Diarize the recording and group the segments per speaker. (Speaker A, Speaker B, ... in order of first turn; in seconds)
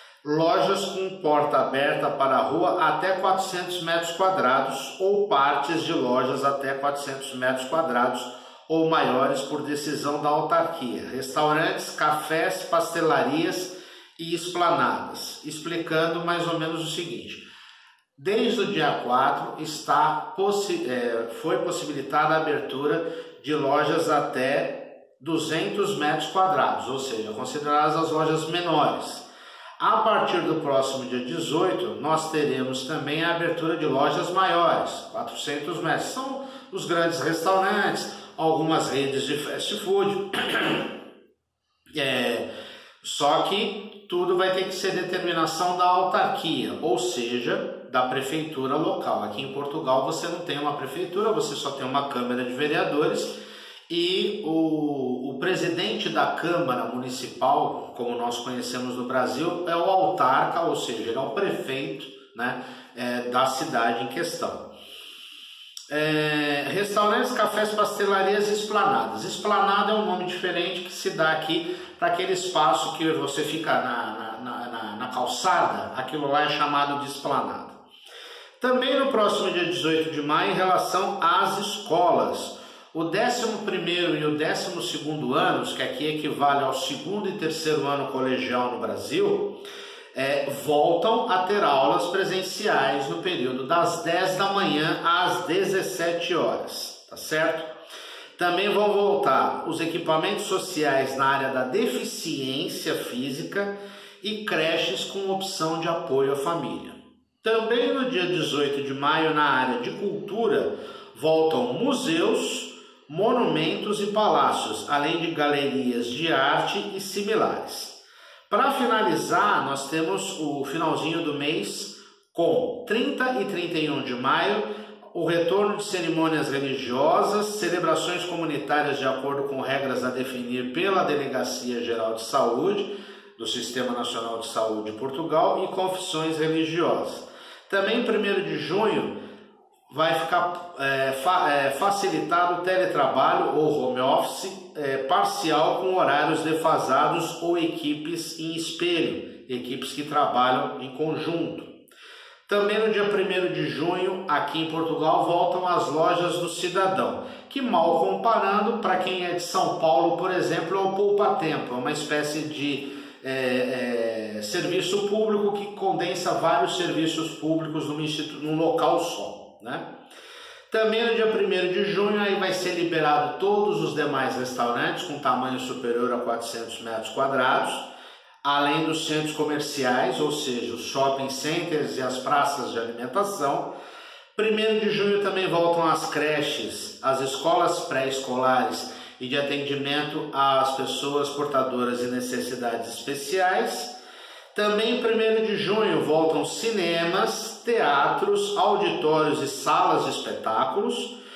Speaker A: 0.2-17.4, 18.2-29.3, 29.8-40.9, 41.9-42.5, 43.0-64.7, 65.9-77.8, 78.6-89.6, 90.1-97.7, 98.4-139.2, 139.9-151.7, 152.5-169.9, 170.7-177.9, 178.4-183.7, 184.3-194.0, 194.5-201.2